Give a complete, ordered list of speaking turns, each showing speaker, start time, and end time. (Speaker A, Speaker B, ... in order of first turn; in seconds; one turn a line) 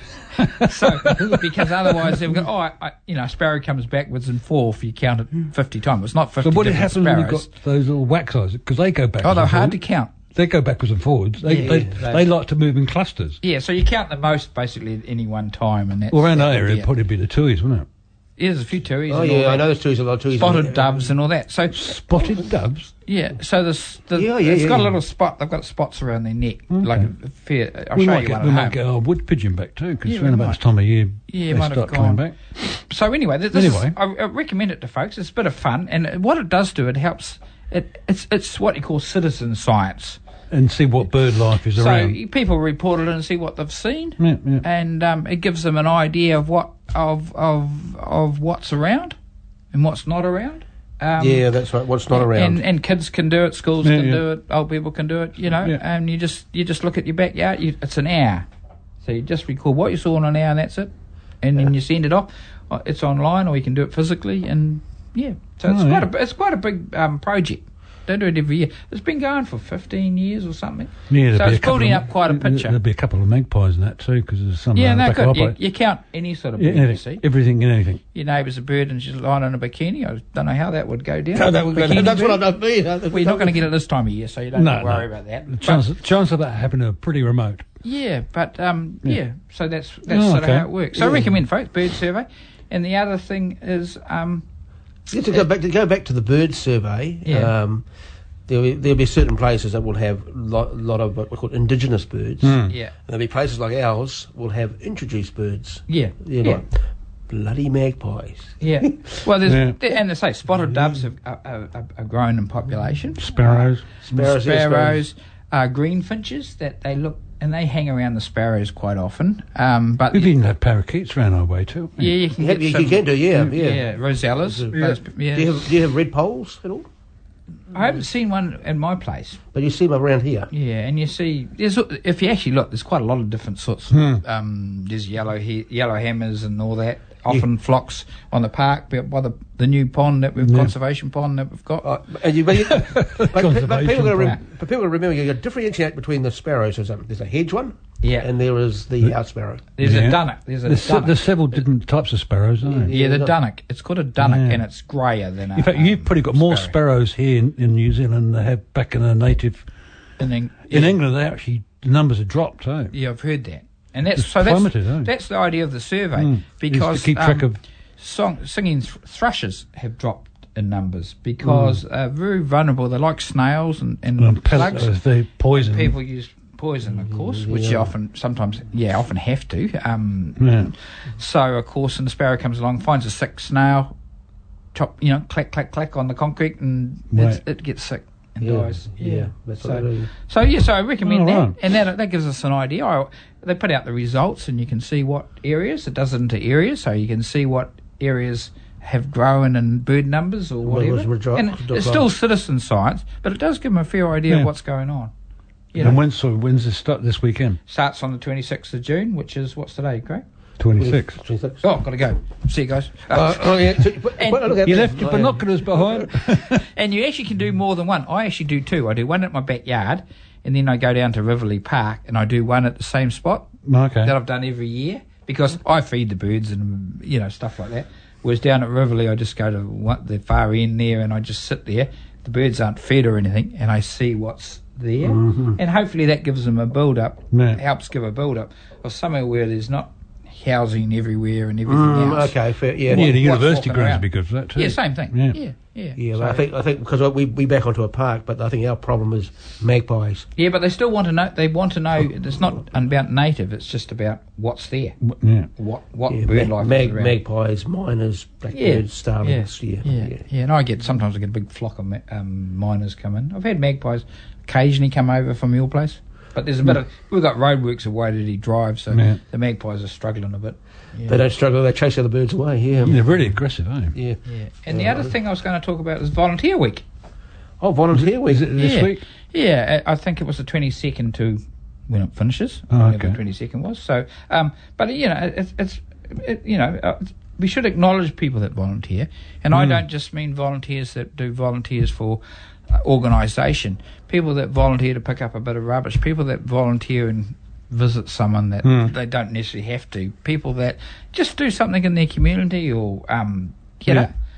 Speaker A: 0.3-2.3
Speaker B: 0.7-7.5
Speaker A: 6.4-9.8
Speaker B: 9.2-10.1
Speaker A: 10.3-13.4
Speaker B: 11.4-12.3
Speaker C: 11.6-11.9
Speaker B: 13.4-16.9
Speaker A: 16.1-17.9
Speaker B: 18.4-19.7
Speaker C: 19.1-21.1
Speaker B: 20.3-22.4
Speaker A: 21.7-22.9
Speaker B: 23.1-28.8
Speaker C: 24.1-25.0
Speaker A: 26.7-27.1
Speaker A: 27.9-32.4
Speaker B: 30.1-30.6
Speaker B: 31.3-40.2
Speaker A: 33.5-33.9
Speaker A: 40.5-42.2
Speaker B: 41.8-49.1
Speaker A: 44.2-44.6
Speaker B: 49.7-51.5
Speaker C: 51.2-52.6
Speaker B: 52.1-58.5
Speaker A: 53.8-54.2
Speaker B: 59.0-72.8
Speaker A: 65.7-66.1
Speaker A: 71.1-75.6
Speaker B: 74.8-77.2
Speaker A: 76.6-78.0
Speaker B: 78.1-82.4
Speaker C: 81.3-83.7
Speaker B: 83.1-85.9
Speaker A: 84.5-87.7
Speaker B: 87.8-94.5
Speaker A: 90.1-90.7
Speaker C: 91.0-91.4
Speaker C: 95.1-97.8
Speaker B: 97.3-97.5
Speaker C: 98.5-109.2
Speaker A: 102.4-102.8
Speaker B: 105.9-106.6
Speaker B: 108.6-120.3
Speaker A: 109.4-109.8
Speaker A: 113.2-114.3
Speaker C: 114.1-115.0
Speaker A: 120.1-122.2
Speaker B: 122.0-125.7
Speaker C: 122.4-126.9
Speaker B: 127.7-129.4
Speaker C: 129.5-130.5
Speaker B: 130.5-141.9
Speaker A: 133.9-134.2
Speaker A: 140.4-140.7
Speaker C: 141.8-149.6
Speaker A: 142.6-144.4
Speaker B: 148.0-148.3
Speaker B: 149.8-151.6
Speaker A: 149.8-152.9
Speaker C: 152.7-153.4
Speaker B: 152.9-156.7
Speaker A: 154.2-154.6
Speaker A: 155.6-159.7
Speaker B: 160.2-161.0
Speaker A: 160.7-162.9
Speaker B: 162.9-175.0
Speaker A: 164.2-165.1
Speaker A: 166.2-167.6
Speaker A: 171.4-171.8
Speaker A: 174.2-175.9
Speaker B: 175.5-183.9
Speaker C: 177.0-177.9
Speaker A: 180.4-180.7
Speaker B: 184.7-205.1
Speaker A: 187.1-187.4
Speaker C: 188.4-190.1
Speaker A: 191.0-191.5
Speaker C: 200.6-202.1
Speaker B: 205.7-206.0
Speaker A: 205.8-207.6
Speaker B: 207.7-210.2
Speaker A: 210.6-211.2
Speaker C: 210.8-211.6
Speaker B: 211.6-214.6
Speaker C: 213.1-215.9
Speaker A: 214.6-216.6
Speaker B: 216.1-223.5
Speaker A: 223.7-224.1
Speaker B: 224.0-246.4
Speaker C: 235.0-235.6
Speaker A: 237.3-237.6
Speaker C: 241.7-243.2
Speaker A: 242.9-245.4
Speaker C: 246.0-250.3
Speaker B: 250.4-255.0
Speaker A: 255.1-255.5
Speaker B: 255.6-257.2
Speaker C: 256.1-260.2
Speaker B: 258.5-271.2
Speaker A: 268.9-269.2
Speaker C: 271.1-273.0
Speaker A: 272.9-273.9
Speaker B: 274.3-276.8
Speaker C: 274.7-275.1
Speaker C: 277.6-278.7
Speaker A: 278.0-279.0
Speaker B: 278.6-304.1
Speaker A: 282.7-283.2
Speaker A: 289.5-289.8
Speaker A: 298.6-298.9